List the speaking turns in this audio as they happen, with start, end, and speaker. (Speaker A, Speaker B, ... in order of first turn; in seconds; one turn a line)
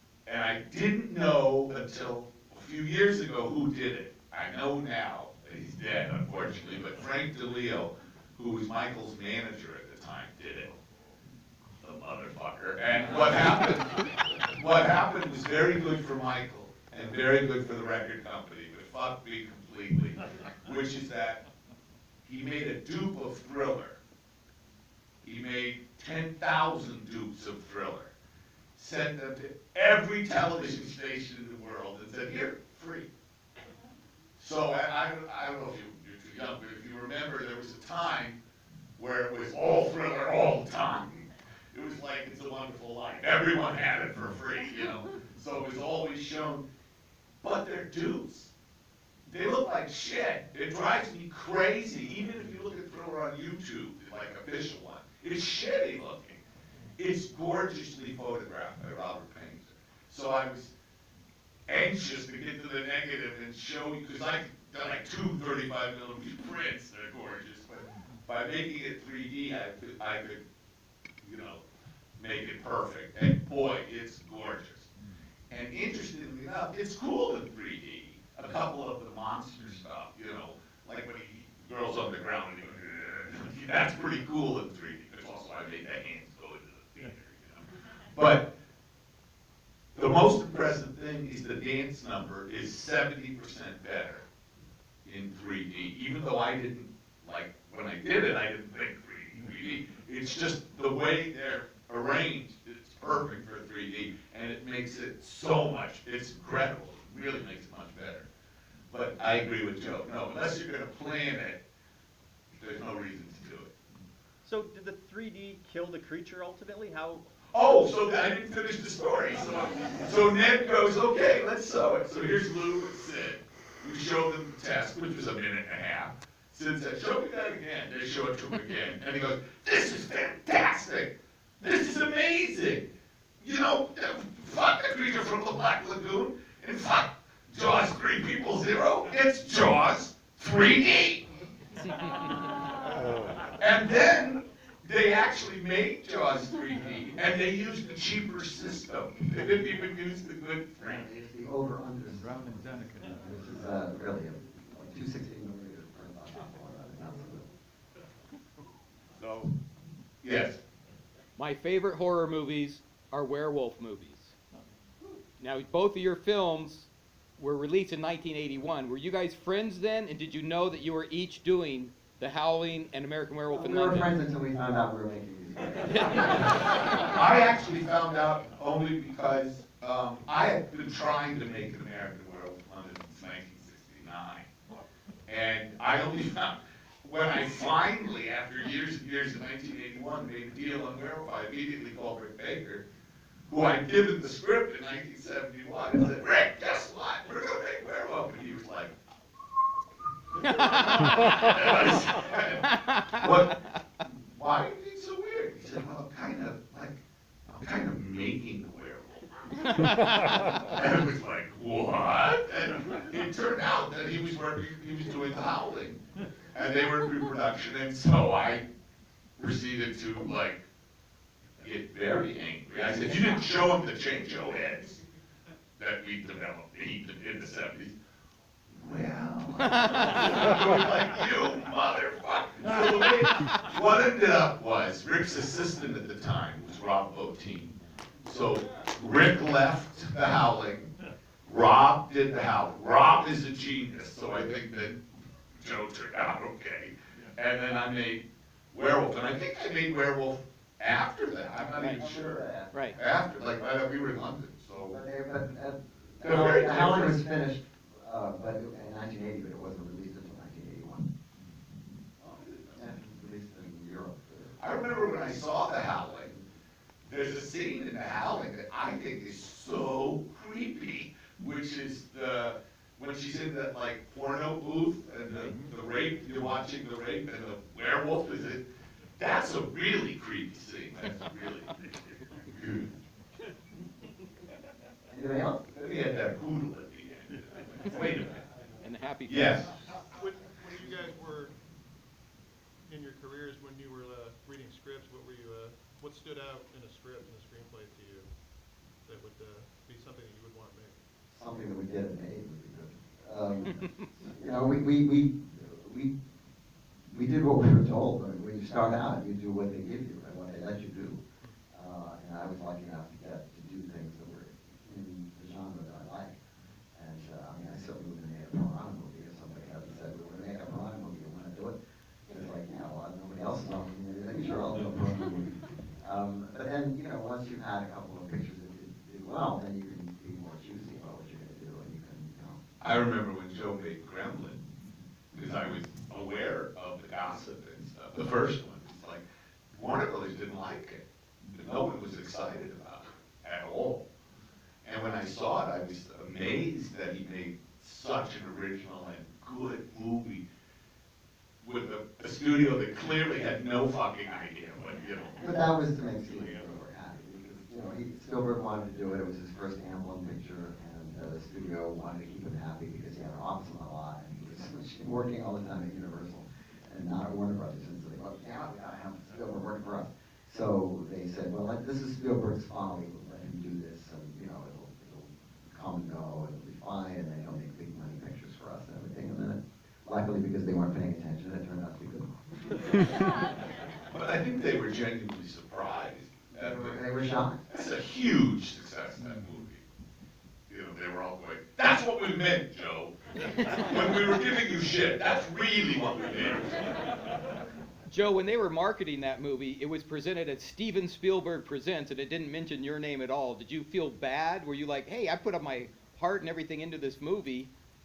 Speaker A: 0.3-10.8
Speaker A: 11.8-21.4
Speaker A: 22.2-24.0
Speaker A: 25.2-28.1
Speaker A: 28.8-33.1
Speaker A: 34.4-38.4
Speaker A: 39.0-46.6
Speaker A: 47.4-48.5
Speaker A: 49.3-56.4
Speaker A: 57.0-60.7
Speaker A: 61.7-70.4
Speaker A: 71.2-71.6
Speaker A: 72.2-74.9
Speaker A: 75.5-88.5
Speaker A: 90.0-94.2
Speaker A: 95.0-108.3
Speaker A: 108.9-111.6
Speaker A: 112.6-113.7
Speaker B: 114.4-117.3
Speaker A: 117.5-132.9
Speaker A: 133.4-141.3
Speaker A: 143.6-151.1
Speaker C: 150.8-157.5
Speaker A: 159.1-159.5
Speaker A: 160.2-160.6
Speaker D: 161.4-164.4
Speaker D: 165.4-174.1
Speaker C: 173.5-176.6
Speaker A: 177.0-184.5
Speaker A: 185.3-192.8
Speaker A: 193.5-198.9
Speaker A: 200.6-203.6
Speaker A: 204.3-209.3
Speaker A: 210.5-216.0
Speaker A: 216.5-218.7
Speaker A: 219.4-220.7
Speaker A: 221.6-225.0
Speaker A: 225.8-227.9
Speaker A: 228.7-240.9
Speaker D: 229.6-230.2
Speaker A: 241.5-245.0
Speaker A: 245.6-255.0
Speaker D: 251.8-252.1
Speaker C: 251.8-252.7
Speaker D: 252.7-253.0
Speaker C: 254.9-261.1
Speaker A: 256.2-257.2
Speaker A: 262.2-262.8
Speaker C: 262.7-264.6
Speaker A: 264.6-266.4
Speaker A: 267.1-278.6
Speaker A: 279.2-281.9
Speaker A: 282.5-282.9
Speaker C: 285.1-285.7
Speaker A: 285.8-288.4
Speaker D: 287.9-289.7
Speaker A: 289.3-289.8
Speaker E: 290.1-291.5
Speaker E: 292.9-298.4
Speaker E: 299.1-301.0
Speaker C: 301.3-306.1
Speaker C: 307.1-311.2
Speaker C: 311.7-316.4
Speaker C: 316.9-321.8
Speaker C: 322.3-332.6
Speaker A: 332.8-334.6
Speaker A: 335.3-344.1
Speaker A: 344.8-350.4
Speaker A: 351.6-355.4
Speaker C: 355.4-383.2
Speaker A: 384.1-387.0
Speaker C: 386.5-387.6
Speaker A: 387.7-389.8
Speaker A: 390.7-396.9
Speaker D: 398.1-407.7